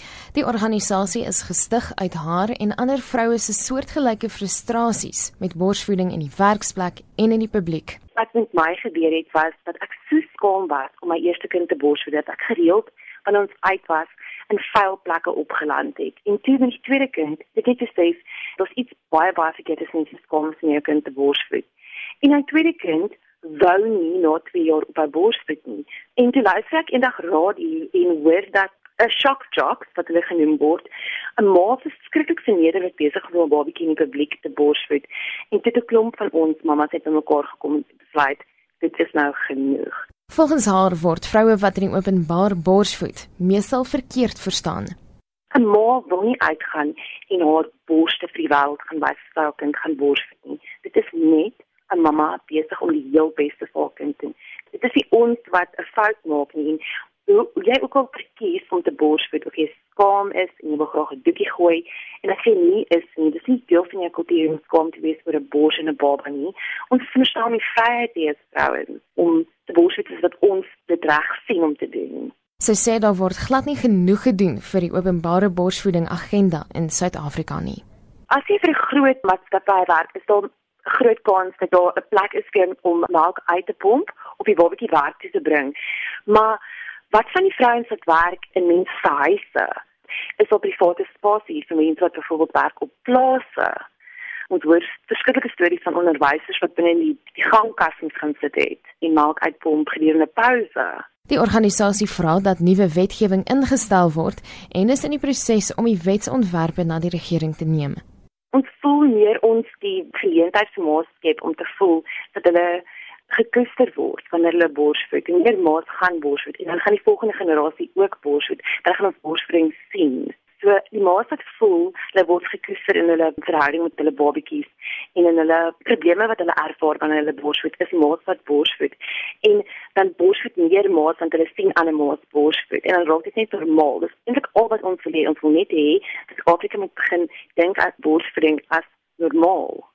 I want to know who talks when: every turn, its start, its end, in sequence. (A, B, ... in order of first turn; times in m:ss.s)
0:00.3-0:08.0 A
0:08.1-0:21.7 B
0:22.2-0:30.9 B
0:31.4-0:40.0 B
0:40.3-0:44.9 A
0:45.5-1:12.3 B
1:12.6-1:17.8 A
1:18.3-1:25.7 B
1:26.2-1:29.7 B
1:30.4-1:33.8 B
1:34.5-1:41.0 B
1:41.3-1:48.0 A
1:48.5-2:19.8 B